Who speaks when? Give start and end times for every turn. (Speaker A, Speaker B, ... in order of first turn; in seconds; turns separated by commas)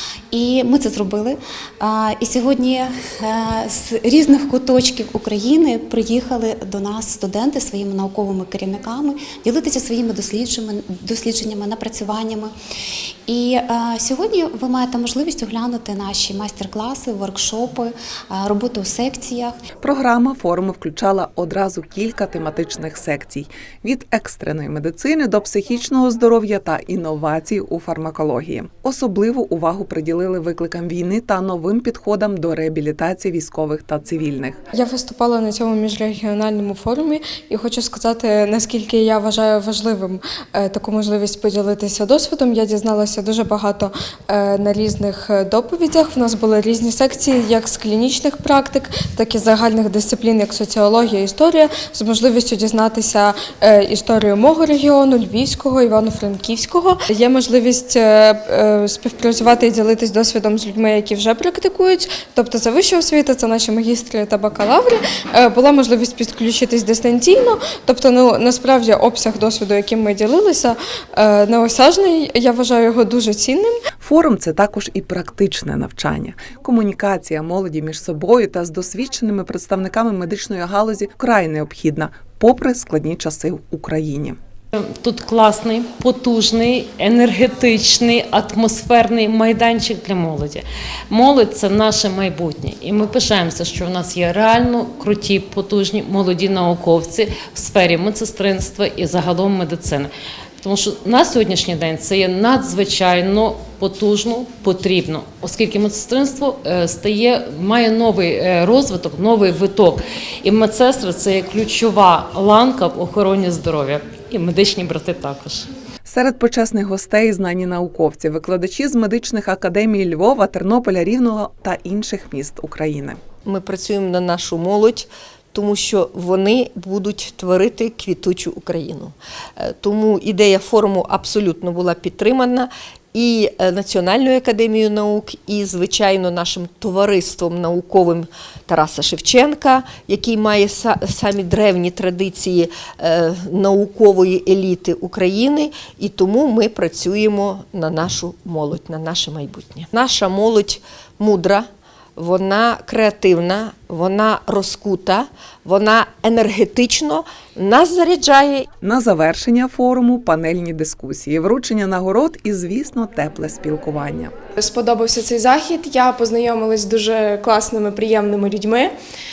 Speaker A: 0.3-12.5, Speaker A: 13.3-19.6, Speaker B: 19.8-34.6, Speaker C: 34.7-73.8, Speaker B: 74.0-84.4, Speaker D: 84.7-115.7, Speaker B: 116.0-123.2, Speaker E: 123.4-158.7, Speaker B: 158.8-164.3, Speaker F: 164.6-168.9